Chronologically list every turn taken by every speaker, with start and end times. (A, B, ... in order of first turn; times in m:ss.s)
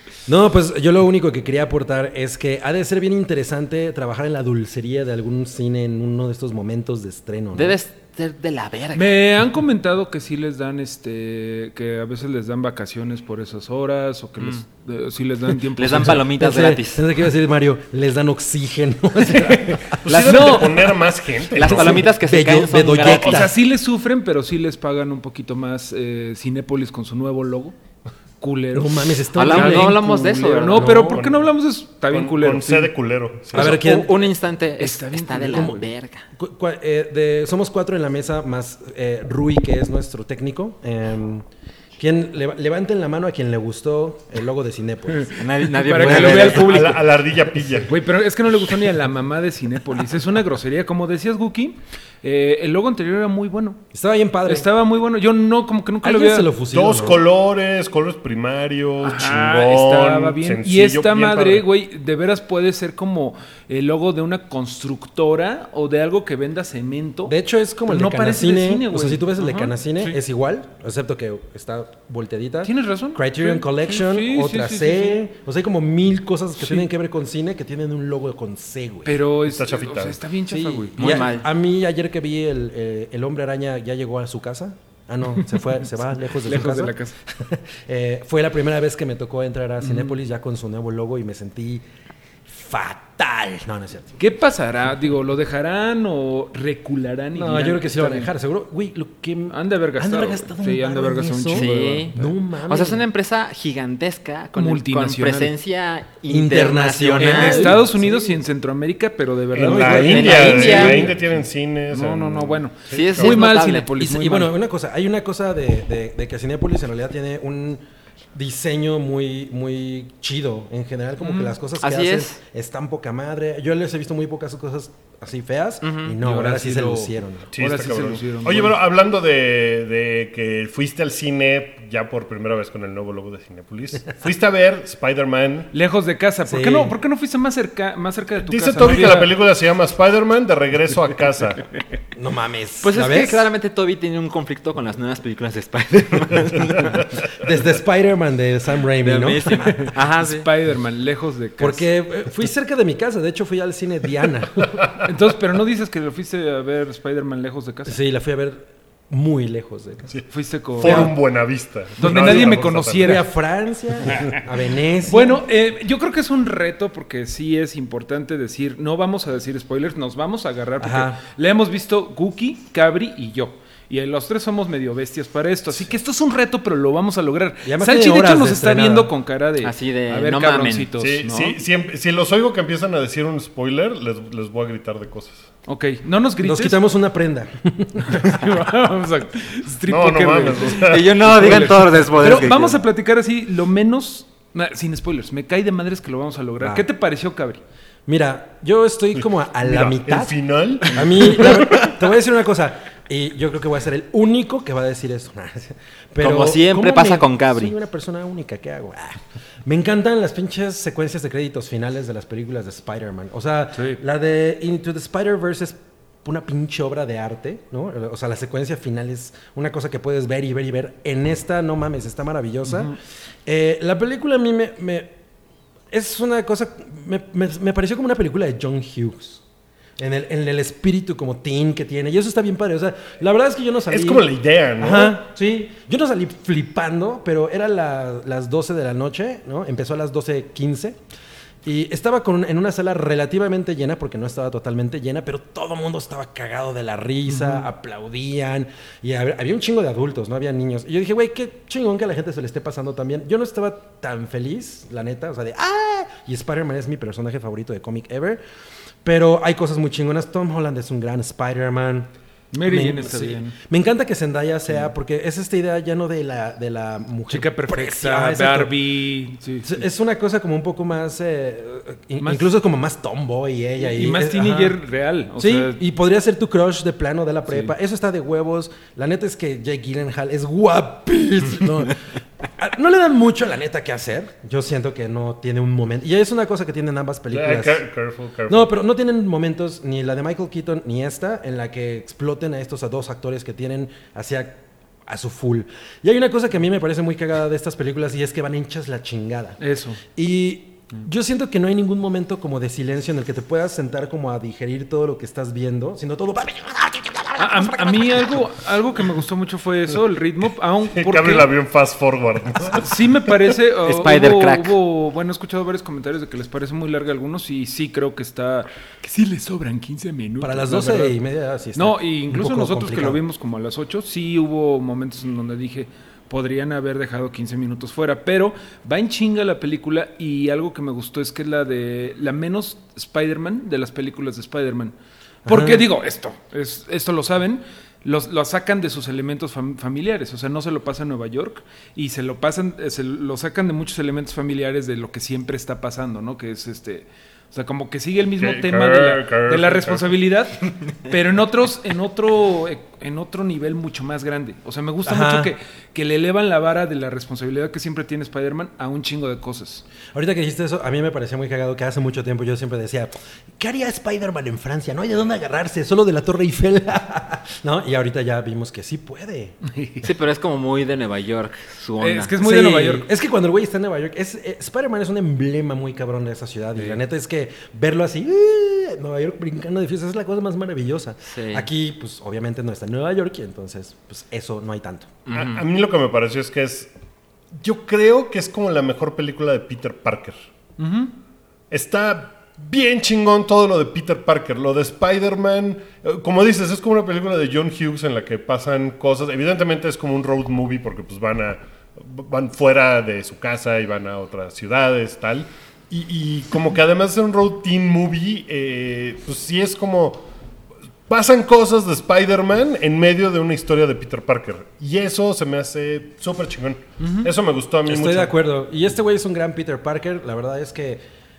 0:00.3-0:07.8 A
0:07.5-0:09.1 B
0:08.9-0:16.2 C
0:15.8-0:17.0 B
0:15.9-0:21.0 A
0:20.0-0:22.1 D
0:20.1-0:20.9 C
0:21.5-0:23.5 B
0:21.6-0:23.5 A
0:23.0-0:27.7 C
0:28.4-0:32.9 C
0:28.7-0:31.2 A
0:29.4-0:31.0 B
0:31.1-0:31.5 D
0:32.1-0:33.8 D
0:33.5-0:34.1 A
0:33.5-0:36.2 B
0:34.8-0:35.8 C
0:35.5-0:41.4 A
0:42.0-0:45.4 A
0:45.1-0:47.1 C
0:45.4-0:47.1 B
0:45.9-0:46.6 A
0:46.2-0:47.9 D
0:47.9-0:53.8 C
0:53.9-0:54.7 A
0:54.4-0:56.5 C
0:56.0-0:57.2 A
0:56.7-1:01.6 D
0:59.0-1:07.4 C
1:07.3-1:19.2 A
1:07.9-1:10.2 C
1:12.6-1:15.2 C
1:16.6-1:16.9 C
1:19.0-1:21.4 C
1:19.4-1:20.2 D
1:20.5-1:31.8 A
1:21.0-1:21.4 B
1:26.1-1:27.1 C
1:29.8-1:30.1 C
1:32.4-1:34.2 A
1:34.2-1:38.3 C
1:37.3-1:43.0 A
1:39.5-1:42.3 C
1:41.5-1:42.1 B
1:42.7-1:47.8 B
1:44.6-1:45.5 C
1:46.3-1:48.4 A
1:47.2-1:51.3 C
1:49.5-1:53.4 D
1:49.6-1:51.1 A
1:49.8-1:51.1 B
1:51.9-1:54.5 C
1:52.9-1:53.9 B
1:54.0-1:57.8 A
1:58.3-2:07.5 A
2:01.2-2:01.6 C
2:01.8-2:02.4 B
2:05.8-2:06.2 B
2:06.2-2:08.8 C
2:07.5-2:15.7 D
2:15.7-2:19.3 C
2:16.4-2:17.0 A
2:18.4-2:21.6 D
2:22.1-2:23.5 A
2:22.8-2:27.1 B
2:27.4-2:29.9 A
2:29.0-2:30.5 B
2:29.7-2:31.9 C
2:31.6-2:34.9 A
2:35.0-2:38.0 C
2:37.8-2:40.1 A
2:40.1-2:43.2 D
2:40.3-2:41.2 C
2:40.8-2:41.1 A
2:42.0-2:43.3 C
2:42.0-2:45.4 A
2:44.0-2:44.4 C
2:45.0-3:01.6 C
2:50.8-2:51.2 A
2:57.6-2:59.1 A
2:59.6-3:00.9 B
3:01.0-3:05.5 D
3:05.7-3:06.8 C
3:06.4-3:08.3 A
3:08.0-3:17.6 C
3:09.9-3:11.7 D
3:10.8-3:12.8 B
3:16.6-3:16.8 A
3:18.1-3:42.9 A
3:19.6-3:21.9 D
3:26.2-3:27.7 B
3:33.7-3:34.0 C
3:42.6-3:42.9 C
3:43.4-3:45.1 A
3:45.9-3:49.4 A
3:50.0-3:54.2 A
3:53.9-3:55.2 D
3:54.8-4:01.0 A
4:01.6-4:18.4 A
4:07.3-4:07.7 C
4:19.0-4:22.1 A
4:22.5-4:23.6 C
4:22.6-4:28.7 A
4:27.3-4:29.8 C
4:29.6-4:34.8 A
4:32.2-4:32.5 C
4:33.8-4:35.8 C
4:35.4-4:47.8 A
4:37.5-4:37.7 C
4:47.3-4:48.7 D
4:48.5-4:59.6 A
4:59.6-5:00.0 C
5:00.1-5:08.4 A
5:07.4-5:11.5 C
5:10.9-5:12.9 D
5:12.7-5:21.2 C
5:13.8-5:14.7 B
5:20.4-5:23.2 A
5:21.7-5:34.9 C
5:35.4-5:35.8 A
5:35.4-5:59.8 C
5:48.4-5:50.1 D
5:55.0-5:55.5 A
6:00.1-6:09.6 A
6:09.6-6:10.1 C
6:10.0-6:12.3 B
6:12.0-6:13.1 C
6:12.4-6:25.1 A
6:21.3-6:21.6 B
6:25.2-6:25.6 B
6:25.3-6:26.9 D
6:27.5-6:30.4 D
6:30.8-6:31.1 C
6:31.7-6:50.2 D
6:51.1-6:58.3 D
6:57.0-6:57.3 C
6:57.8-7:01.0 A